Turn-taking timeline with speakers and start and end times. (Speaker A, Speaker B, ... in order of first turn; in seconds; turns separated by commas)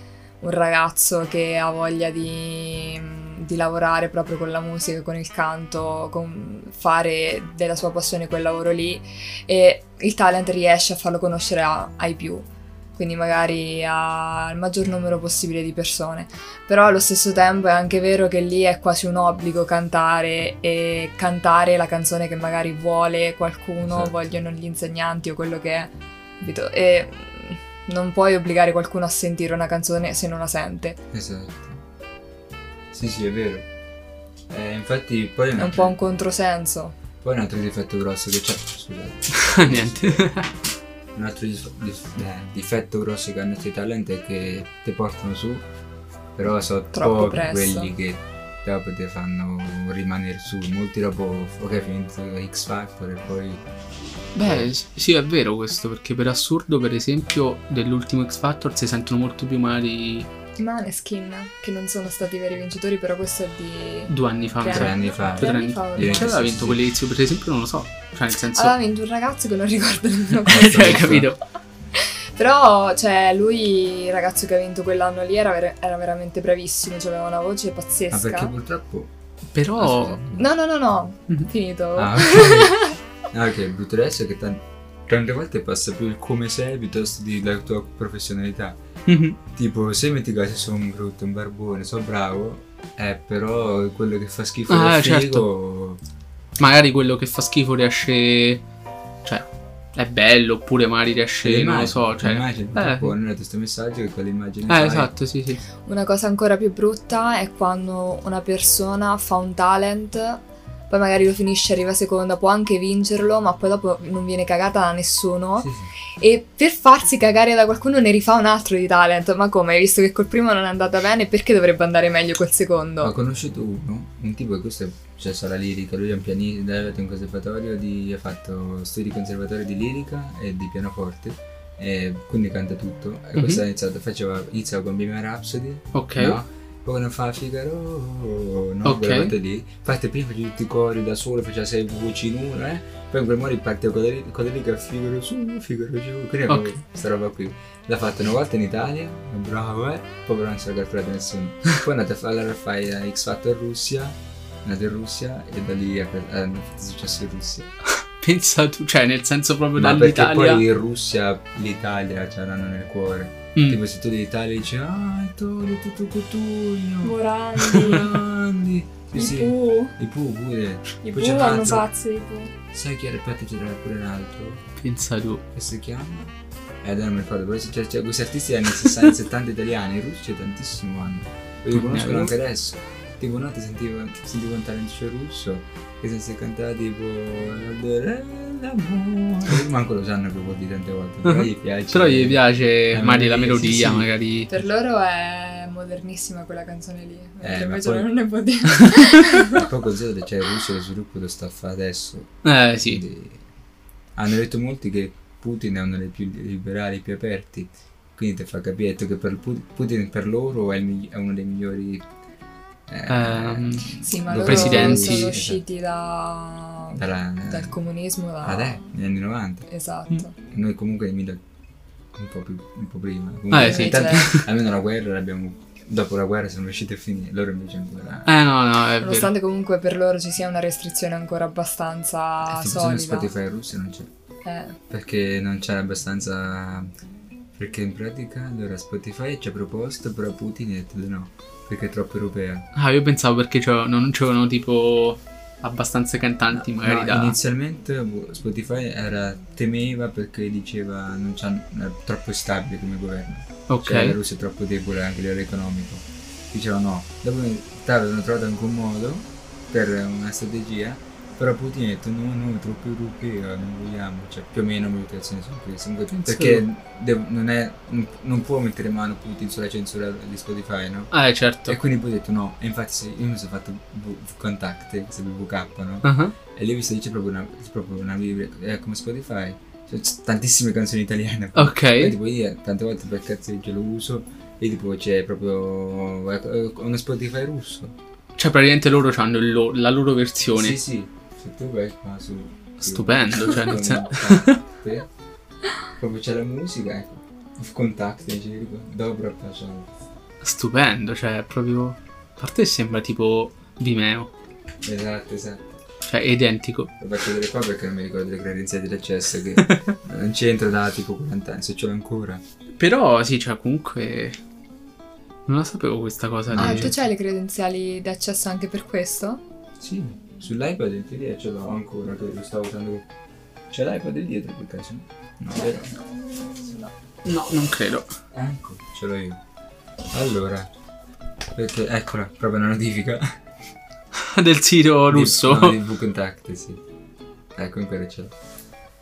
Speaker A: 0.4-31.0, Speaker B: 23.8-24.1, Speaker B: 31.1-31.8, Speaker B: 32.9-33.6, Speaker B: 34.5-35.9, Speaker A: 35.6-37.0, Speaker B: 37.2-40.2, Speaker C: 39.3-40.5, Speaker B: 41.1-45.6, Speaker B: 46.3-53.6, Speaker A: 46.9-47.9, Speaker C: 54.3-60.3, Speaker B: 54.4-54.7, Speaker A: 60.6-66.3, Speaker C: 64.1-68.7, Speaker B: 64.6-66.8, Speaker A: 68.5-71.2, Speaker C: 70.5-71.4, Speaker B: 70.5-71.3, Speaker A: 71.9-78.5, Speaker B: 78.1-79.1, Speaker C: 79.5-80.2, Speaker B: 79.8-80.5, Speaker A: 80.3-83.0, Speaker B: 82.0-88.8, Speaker C: 89.1-89.4, Speaker B: 89.4-96.0, Speaker C: 94.7-95.4, Speaker C: 96.6-98.6, Speaker C: 99.2-103.1, Speaker B: 101.4-105.1, Speaker C: 104.7-105.6, Speaker A: 105.8-123.1, Speaker B: 115.6-115.9, Speaker B: 123.0-157.7, Speaker C: 133.4-133.6, Speaker C: 135.9-136.4, Speaker C: 138.8-139.3, Speaker C: 157.9-160.6, Speaker B: 159.8-171.8, Speaker A: 167.0-168.2, Speaker A: 169.1-169.9, Speaker A: 171.0-172.5, Speaker B: 172.7-174.6, Speaker C: 174.8-175.4, Speaker B: 175.5-194.1, Speaker C: 181.7-182.3, Speaker C: 191.2-194.5, Speaker A: 194.5-199.6, Speaker B: 197.4-198.1, Speaker C: 198.8-199.1, Speaker B: 199.4-203.4, Speaker C: 202.4-203.0, Speaker B: 204.2-212.1, Speaker B: 212.9-215.6, Speaker C: 213.1-215.3, Speaker A: 214.0-218.8, Speaker B: 216.9-217.8, Speaker B: 218.4-219.7, Speaker A: 219.7-220.3, Speaker B: 220.4-221.4, Speaker B: 222.1-228.3, Speaker C: 223.5-224.5, Speaker A: 223.5-224.3, Speaker C: 228.2-229.3, Speaker A: 229.0-233.3, Speaker B: 232.4-234.1, Speaker A: 234.4-234.8, Speaker B: 234.9-236.9, Speaker B: 237.6-242.7, Speaker C: 242.7-247.3, Speaker B: 246.5-271.1, Speaker C: 253.7-254.2, Speaker C: 266.2-266.6, Speaker C: 271.1-271.8, Speaker B: 271.6-287.9, Speaker C: 276.0-276.3, Speaker C: 281.5-282.1, Speaker C: 288.4-290.8, Speaker B: 290.5-295.1, Speaker C: 292.8-294.6, Speaker B: 296.0-299.9, Speaker C: 300.4-304.3, Speaker B: 304.8-305.7, Speaker C: 306.0-306.9, Speaker B: 307.0-312.4, Speaker C: 309.6-309.9, Speaker C: 312.8-314.4, Speaker C: 315.5-316.9, Speaker B: 316.5-316.9, Speaker A: 316.6-319.4, Speaker B: 319.8-323.1, Speaker B: 323.7-325.9, Speaker A: 325.6-326.9, Speaker C: 327.2-328.2, Speaker B: 328.3-329.4, Speaker B: 330.1-330.7, Speaker B: 331.5-333.4, Speaker C: 334.1-335.8, Speaker B: 335.1-336.8, Speaker B: 337.5-338.3